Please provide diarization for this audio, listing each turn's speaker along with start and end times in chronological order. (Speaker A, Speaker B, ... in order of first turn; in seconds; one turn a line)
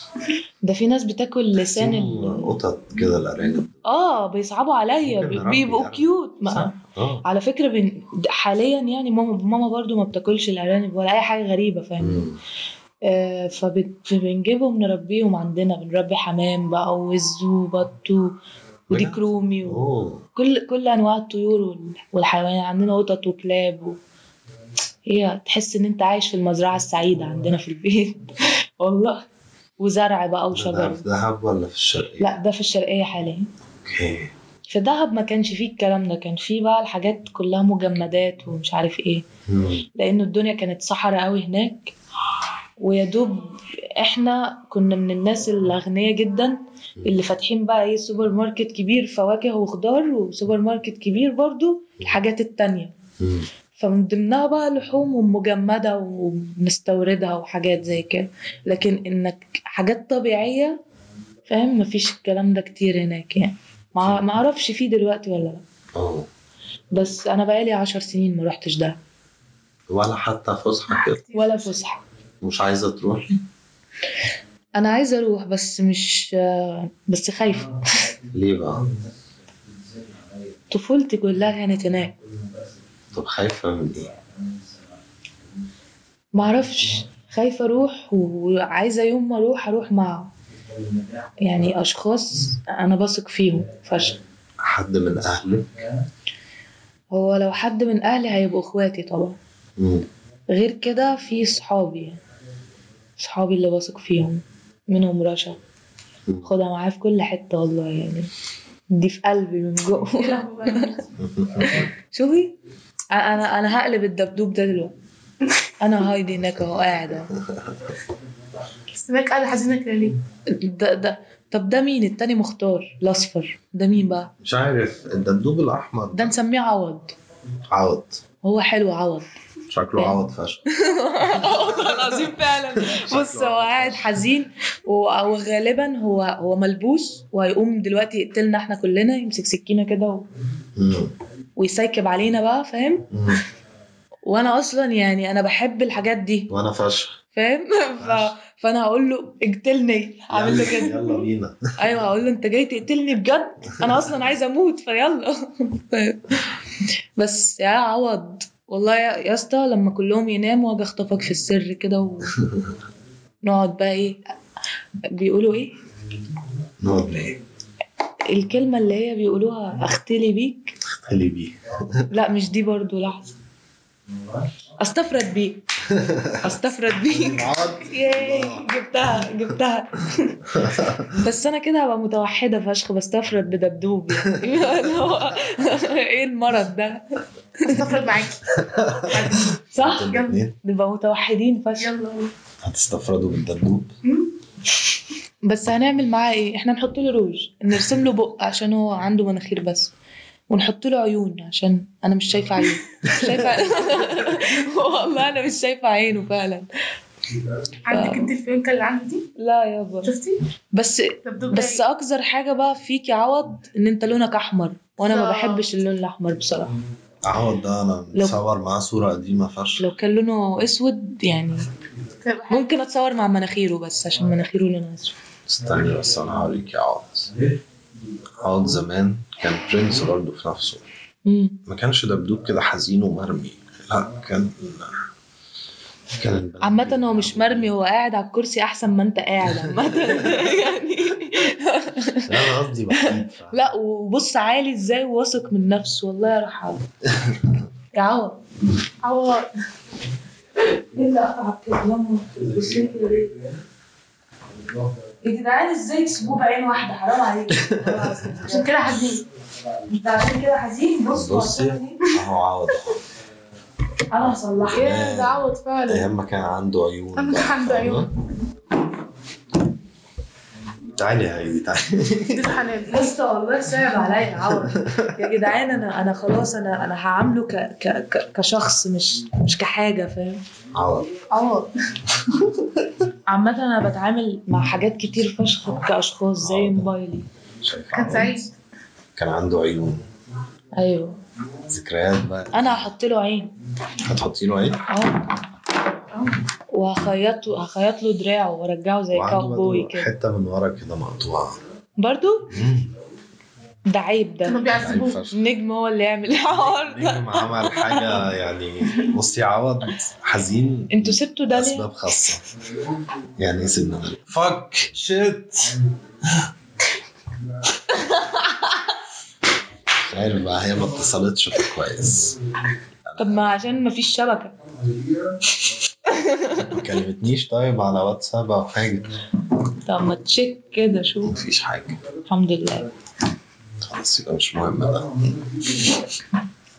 Speaker A: 0.6-2.5
Speaker B: 1.6-3.8
Speaker A: 3.9-12.3
Speaker B: 5.0-7.2
Speaker B: 12.0-12.4
Speaker A: 13.1-18.4
Speaker A: 18.9-19.8
Speaker B: 18.9-20.2
Speaker A: 20.4-24.0
Speaker A: 25.1-28.3
Speaker A: 28.8-29.3
Speaker A: 29.8-31.1
Speaker B: 30.5-32.3
Speaker A: 32.2-33.5
Speaker B: 33.8-34.3
Speaker A: 34.7-39.2
Speaker B: 39.5-39.9
Speaker A: 40.0-41.9
Speaker A: 42.8-52.9
Speaker B: 53.2-53.5
Speaker A: 53.8-60.8
Speaker A: 61.5-65.6
Speaker B: 64.0-64.2
Speaker B: 66.0-66.3
Speaker A: 66.9-69.0
Speaker B: 69.9-71.2
Speaker C: 71.0-71.8
Speaker A: 71.3-72.0
Speaker B: 72.4-73.3
Speaker A: 74.8-77.8
Speaker B: 78.3-78.9
Speaker A: 80.7-82.2
Speaker B: 83.1-84.1
Speaker A: 86.3-90.3
Speaker A: 91.4-94.2
Speaker B: 94.6-95.7
Speaker A: 97.1-99.4
Speaker B: 99.8-100.1
Speaker A: 100.5-102.2
Speaker A: 103.2-105.6
Speaker A: 106.4-108.3
Speaker A: 108.9-111.0
Speaker C: 110.1-111.1
Speaker B: 111.2-111.8
Speaker A: 111.6-112.6
Speaker A: 113.1-114.9
Speaker A: 115.8-117.3
Speaker B: 116.4-117.7
Speaker C: 118.9-120.2
Speaker A: 120.5-124.3
Speaker B: 124.4-126.3
Speaker A: 126.1-127.2
Speaker B: 127.7-128.2
Speaker A: 128.4-129.3
Speaker B: 129.7-130.6
Speaker A: 130.7-140.3
Speaker B: 131.4-134.1
Speaker B: 140.8-141.1
Speaker A: 141.6-143.1
Speaker B: 143.1-143.4
Speaker A: 144.3-146.5
Speaker B: 146.5-147.2
Speaker A: 147.3-151.1
Speaker B: 148.0-148.3
Speaker B: 150.3-151.6
Speaker A: 151.8-156.5
Speaker A: 157.2-162.4
Speaker A: 163.4-164.2
Speaker A: 165.1-165.8
Speaker B: 166.8-167.4
Speaker A: 168.3-170.8
Speaker B: 170.9-172.1
Speaker A: 172.1-173.3
Speaker A: 174.8-175.6
Speaker B: 175.9-176.4
Speaker A: 176.4-180.4
Speaker B: 177.2-178.7
Speaker B: 180.5-181.2
Speaker A: 181.2-187.8
Speaker C: 187.6-189.5
Speaker B: 188.7-190.6
Speaker A: 189.7-191.9
Speaker C: 190.1-190.4
Speaker C: 191.8-192.3
Speaker B: 192.6-193.9
Speaker C: 194.1-194.3
Speaker A: 195.4-199.9
Speaker A: 200.5-206.7
Speaker B: 203.2-203.5
Speaker C: 207.9-209.3
Speaker A: 207.9-208.3
Speaker A: 209.4-210.1
Speaker C: 210.0-210.4
Speaker A: 210.7-216.7
Speaker C: 211.2-211.8
Speaker C: 215.0-215.7
Speaker B: 217.2-219.9
Speaker A: 219.8-221.7
Speaker C: 222.2-222.7
Speaker A: 222.5-225.2
Speaker B: 225.5-227.3
Speaker B: 228.4-230.8
Speaker A: 231.3-231.6
Speaker B: 231.7-235.0
Speaker B: 236.2-237.8
Speaker A: 236.6-246.9
Speaker B: 239.5-240.5
Speaker B: 242.2-243.7
Speaker A: 247.9-248.4
Speaker C: 249.0-249.5
Speaker A: 250.9-253.4
Speaker A: 255.2-258.9
Speaker B: 257.6-258.3
Speaker C: 258.5-259.2
Speaker A: 259.9-262.0
Speaker B: 261.1-263.0
Speaker A: 264.1-265.0
Speaker B: 264.6-268.1
Speaker C: 264.7-266.1
Speaker C: 267.2-268.1
Speaker B: 270.9-272.5
Speaker C: 272.3-273.1
Speaker A: 272.9-280.4
Speaker B: 274.5-275.1
Speaker B: 280.7-281.2
Speaker C: 281.3-281.7
Speaker A: 283.3-287.3
Speaker B: 286.4-286.9
Speaker B: 287.6-288.4
Speaker C: 287.9-288.6
Speaker B: 289.2-290.1
Speaker A: 290.8-291.1
Speaker B: 291.7-292.9
Speaker A: 292.5-293.5
Speaker B: 294.0-294.9
Speaker A: 294.9-295.2
Speaker C: 296.1-296.4
Speaker A: 296.7-300.1
Speaker B: 299.1-301.6
Speaker A: 302.0-302.5
Speaker B: 302.5-302.9
Speaker A: 303.9-304.7
Speaker C: 304.4-305.3
Speaker B: 304.7-305.4
Speaker A: 305.3-308.2
Speaker B: 306.4-312.4
Speaker A: 310.9-312.2
Speaker B: 313.4-316.5
Speaker A: 317.9-318.7
Speaker B: 320.0-322.4
Speaker B: 323.1-323.6
Speaker A: 323.2-324.5
Speaker A: 326.3-326.7
Speaker B: 326.6-329.1
Speaker A: 329.8-331.4
Speaker B: 331.2-332.0
Speaker A: 332.3-332.9
Speaker B: 333.8-335.7